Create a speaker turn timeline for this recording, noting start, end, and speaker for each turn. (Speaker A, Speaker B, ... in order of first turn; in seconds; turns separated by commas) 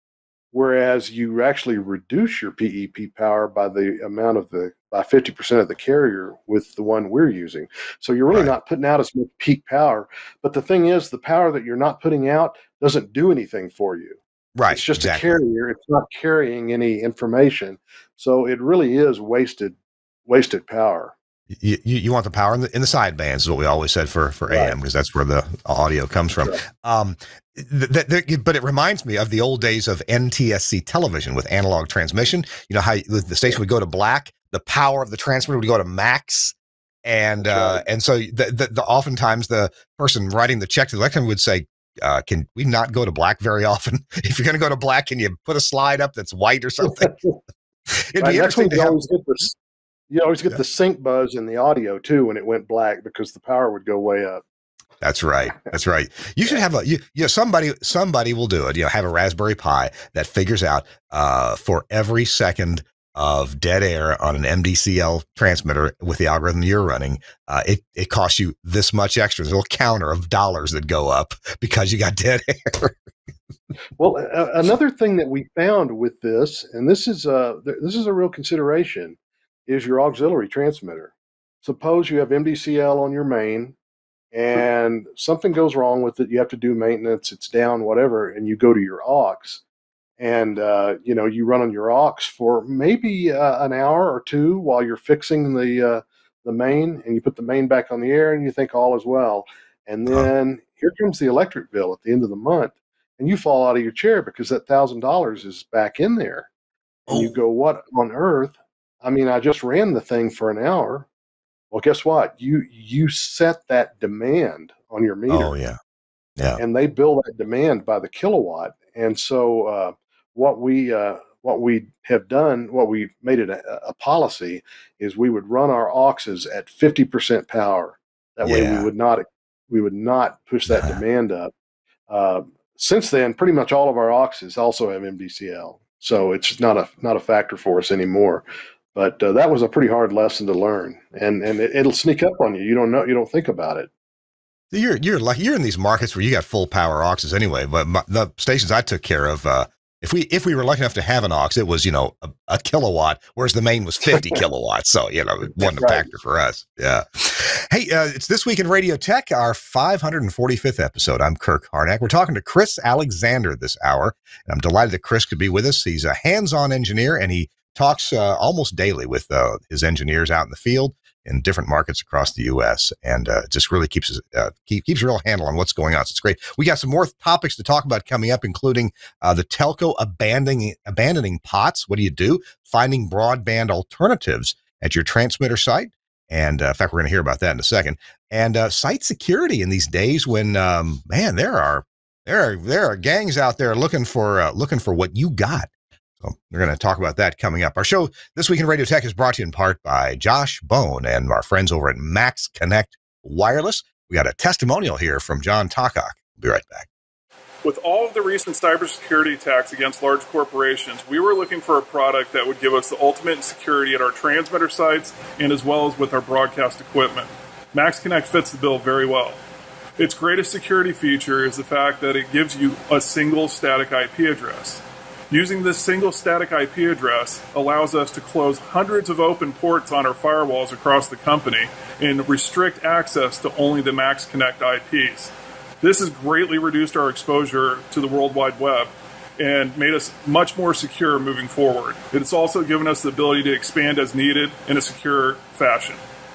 Speaker A: 0.5-21.1, Speaker B: 14.6-15.3, Speaker B: 21.6-47.1, Speaker A: 24.5-24.7, Speaker A: 37.4-37.8, Speaker B: 47.9-49.0, Speaker A: 48.2-49.5, Speaker A: 50.1-54.4, Speaker B: 55.0-72.9, Speaker A: 74.0-81.1, Speaker A: 81.6-83.7, Speaker A: 84.3-89.6, Speaker A: 90.2-106.5, Speaker A: 107.1-111.1, Speaker A: 111.7-115.5, Speaker B: 115.3-115.8, Speaker A: 116.6-131.5, Speaker B: 128.4-128.9, Speaker B: 130.7-130.9, Speaker A: 132.1-143.9, Speaker B: 144.7-195.7, Speaker A: 155.6-156.1, Speaker B: 196.2-206.9, Speaker C: 207.6-219.4, Speaker C: 220.0-246.0